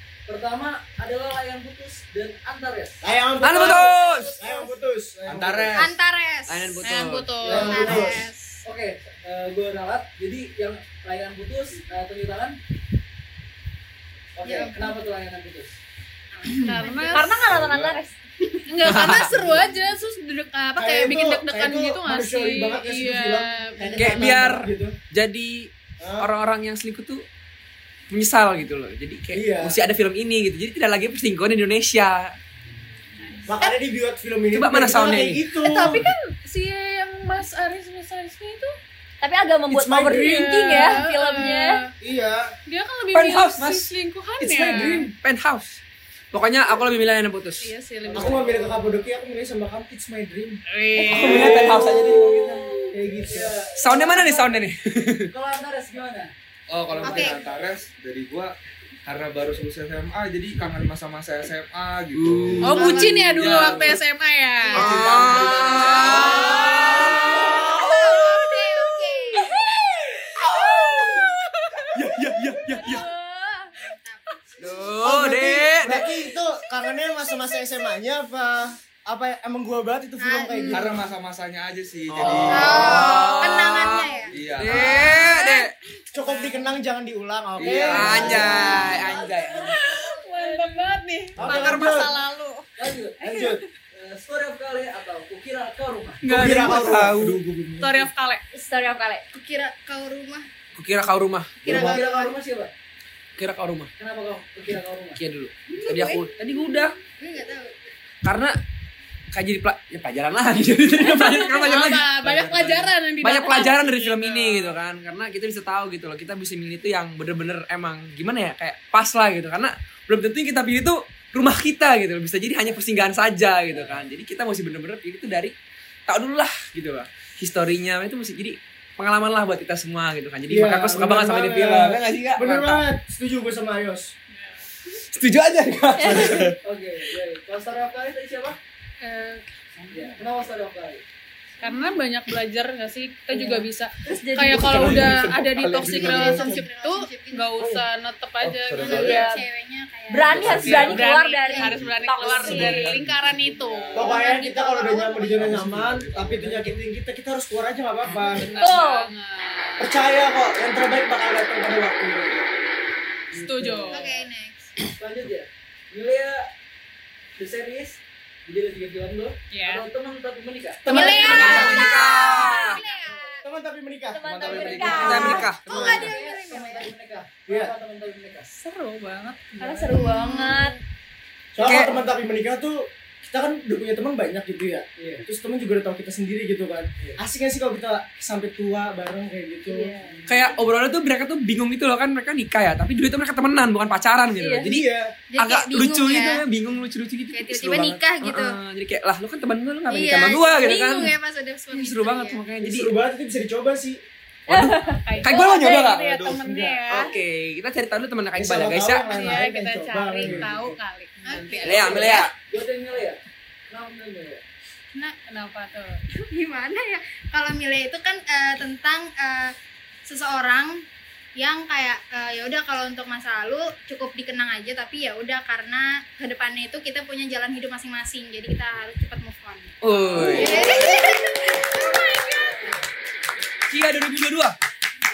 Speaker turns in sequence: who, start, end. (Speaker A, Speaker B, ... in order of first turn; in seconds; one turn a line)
Speaker A: 0.3-3.0
Speaker B: 3.0-5.8
Speaker C: 3.4-4.4
Speaker A: 4.1-4.3
Speaker D: 5.2-5.9
Speaker E: 5.7-6.8
Speaker C: 6.5-7.5
Speaker F: 6.8-7.9
Speaker A: 7.4-8.0
Speaker B: 7.4-8.2
Speaker E: 7.5-8.6
Speaker A: 8.6-12.6
Speaker A: 14.3-15.7
Speaker E: 14.4-15.0
Speaker E: 16.4-17.3
Speaker F: 16.5-17.4
Speaker G: 17.1-18.6
Speaker D: 17.5-18.0
Speaker F: 18.7-24.3
Speaker C: 18.8-19.3
Speaker B: 20.8-24.9
Speaker C: 24.0-27.2
Speaker B: 26.0-26.3
Speaker C: 28.1-32.4
Speaker B: 29.3-29.8
Speaker B: 33.5-36.1
Speaker C: 34.5-35.4
Speaker F: 35.6-38.7
Speaker G: 39.2-41.8
Speaker B: 39.7-40.5
Speaker F: 40.1-41.9
Speaker B: 42.0-42.5
Speaker F: 42.7-45.1
Speaker C: 43.1-43.9
Speaker B: 44.4-45.1
Speaker C: 45.1-45.8
Speaker C: 46.3-47.7
Speaker F: 47.6-48.5
Speaker A: 48.0-49.0
Speaker B: 48.1-52.3
Speaker F: 50.7-51.5
Speaker C: 51.0-52.4
Speaker A: 51.2-54.6
Speaker B: 52.9-53.6
Speaker C: 53.8-55.2
Speaker A: 55.3-56.3
Speaker D: 56.7-58.5
Speaker A: 56.9-57.7
Speaker E: 57.0-57.4
Speaker D: 59.0-64.0
Speaker C: 62.1-63.9
Speaker F: 62.6-68.0
Speaker E: 62.7-63.7
Speaker E: 64.7-65.0
Speaker D: 64.7-66.7
Speaker C: 64.7-68.2
Speaker E: 65.7-69.6
Speaker F: 70.5-71.3
Speaker C: 70.6-71.0
Speaker C: 71.9-73.0
Speaker F: 72.8-73.1
Speaker E: 73.7-74.8
Speaker C: 74.6-76.1
Speaker B: 75.0-81.0
Speaker E: 80.2-80.9
Speaker D: 80.7-83.3
Speaker C: 82.1-85.7
Speaker E: 82.5-84.3
Speaker D: 84.3-85.1
Speaker F: 84.6-86.8
Speaker B: 86.1-88.9
Speaker D: 87.6-88.3
Speaker A: 87.6-90.8
Speaker C: 87.9-89.7
Speaker F: 89.5-92.7
Speaker B: 91.4-92.1
Speaker A: 92.8-93.2
Speaker B: 93.2-93.6
Speaker F: 93.3-93.6
Speaker A: 93.9-96.2
Speaker F: 96.2-96.9
Speaker C: 96.2-97.4
Speaker B: 96.3-98.0
Speaker F: 97.8-98.4
Speaker G: 98.5-99.2
Speaker E: 99.3-100.5
Speaker C: 100.7-101.6
Speaker A: 101.6-102.7
Speaker B: 101.6-102.0
Speaker E: 101.7-102.3
Speaker C: 103.4-103.9
Speaker A: 104.0-105.2
Speaker C: 105.2-106.9
Speaker E: 105.7-106.2
Speaker E: 107.2-107.7
Speaker C: 108.2-108.5
Speaker C: 109.3-125.5
Speaker F: 111.0-114.8
Speaker D: 112.3-112.8
Speaker A: 123.7-124.1
Speaker C: 126.1-132.8
Speaker B: 130.5-134.1
Speaker F: 134.3-134.6
Speaker C: 135.1-136.6
Speaker G: 136.0-136.4
Speaker A: 136.6-138.6
Speaker F: 139.0-140.1
Speaker A: 139.9-141.0
Speaker F: 141.6-149.4
Speaker G: 143.3-145.2
Speaker D: 144.6-146.6
Speaker E: 145.8-147.7
Speaker D: 148.4-149.3
Speaker E: 148.8-152.8
Speaker G: 148.8-149.4
Speaker G: 150.1-153.0
Speaker D: 150.3-151.0
Speaker F: 150.5-155.3
Speaker D: 151.6-154.2
Speaker B: 153.9-158.6
Speaker E: 154.1-155.3
Speaker D: 155.3-156.8
Speaker F: 158.1-160.0
Speaker G: 158.6-159.1
Speaker B: 159.8-162.4
Speaker A: 163.3-164.0
Speaker F: 163.3-164.1
Speaker B: 163.4-163.8
Speaker E: 163.9-164.7
Speaker A: 165.0-166.4
Speaker A: 167.4-171.2
Speaker F: 169.5-169.8
Speaker B: 170.8-171.8
Speaker E: 170.9-173.4
Speaker G: 170.9-172.8
Speaker C: 171.2-172.8
Speaker F: 171.3-171.7
Speaker B: 173.4-176.1
Speaker G: 174.1-175.4
Speaker D: 174.3-175.3
Speaker A: 174.5-178.5
Speaker C: 174.9-176.0
Speaker E: 175.7-176.9
Speaker B: 177.5-177.7
Speaker F: 178.5-180.5
Speaker G: 179.6-180.8
Speaker E: 179.9-180.7
Speaker B: 181.5-189.9
Speaker C: 181.6-181.9
Speaker A: 185.0-185.2
Speaker G: 189.7-190.2
Speaker A: 190.0-190.6
Speaker C: 190.3-201.2
Speaker G: 194.4-194.7
Speaker B: 194.6-195.1
Speaker E: 195.3-196.4
Speaker E: 197.3-198.6
Speaker E: 199.9-202.4
Speaker C: 201.7-202.9
Speaker B: 202.6-204.0
Speaker C: 204.5-206.1
Speaker G: 204.5-205.0
Speaker F: 205.0-207.1
Speaker B: 206.2-207.0
Speaker C: 206.9-209.3
Speaker B: 208.3-210.8
Speaker F: 209.1-212.2
Speaker E: 211.2-212.2
Speaker A: 211.3-214.4
Speaker C: 211.6-212.3
Speaker F: 215.2-216.0
Speaker E: 216.1-219.5
Speaker E: 220.1-220.8
Speaker E: 221.3-232.3
Speaker C: 229.8-230.7
Speaker F: 230.2-231.1
Speaker F: 231.7-232.1
Speaker A: 232.4-232.8
Speaker C: 233.7-234.6